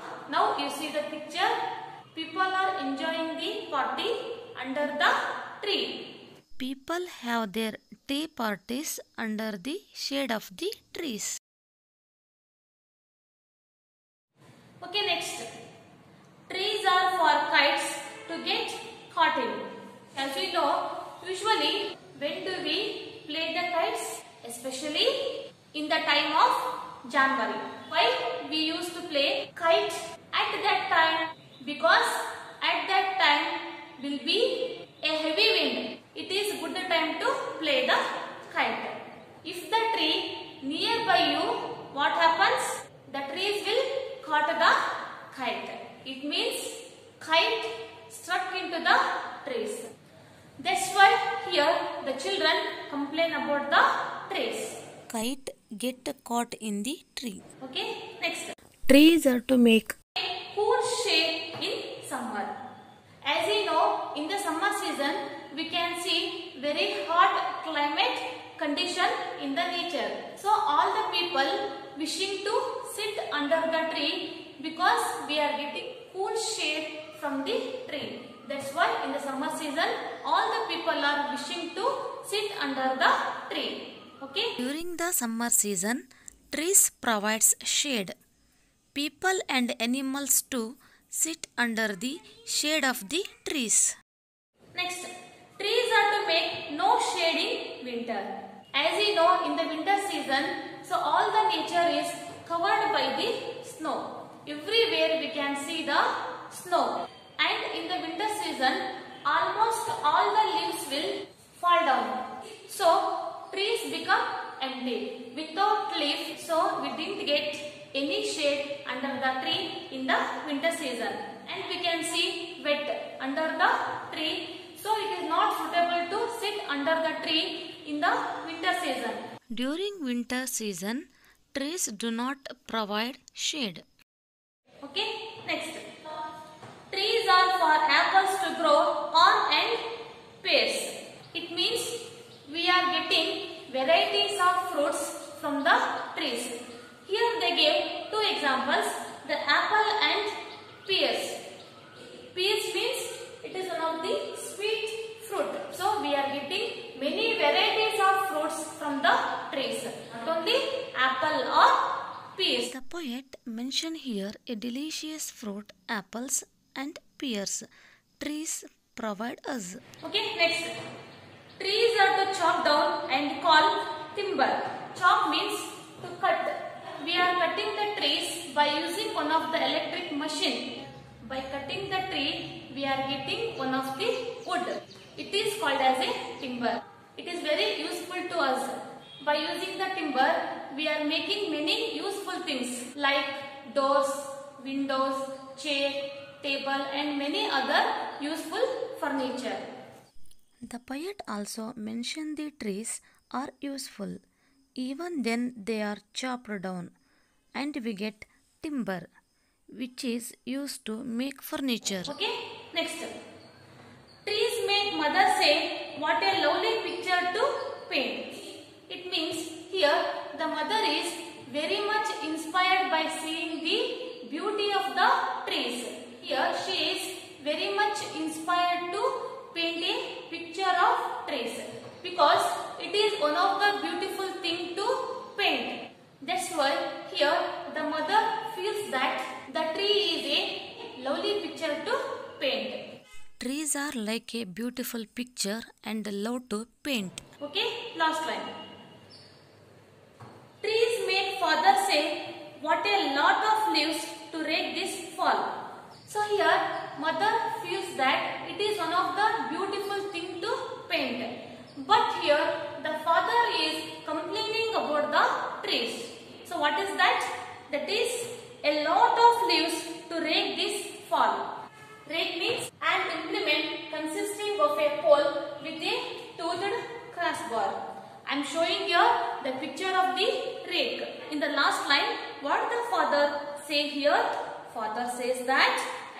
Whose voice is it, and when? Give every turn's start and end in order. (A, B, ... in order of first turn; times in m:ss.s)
0:00.3-0:01.6 A
0:02.1-0:06.0 A
0:06.6-0:11.4 B
0:14.8-0:15.5 A
0:16.5-0:49.9 A
0:50.6-0:54.8 A
0:55.1-0:57.4 B
0:57.6-0:58.5 A
0:58.9-0:59.9 B
1:00.2-1:02.6 A
1:03.2-1:24.5 A
1:24.6-1:28.2 B
1:28.9-1:34.0 B
1:34.7-2:09.2 A
2:09.5-2:13.8 B
2:14.8-2:15.9 A
2:16.9-2:19.8 A
2:20.4-2:31.4 A
2:32.3-2:42.7 A
2:42.6-2:47.7 B
2:48.2-2:49.8 B
2:50.0-2:50.8 A
2:51.6-3:19.7 A
3:20.6-3:24.2 B
3:24.8-3:26.9 B
3:27.5-3:29.1 B
3:29.7-3:32.1 B
3:32.0-3:33.1 A
3:34.2-4:02.8 A
4:03.4-4:07.2 B
4:07.4-4:08.5 A
4:10.6-4:15.5 A
4:16.1-4:31.5 A
4:32.0-4:45.9 A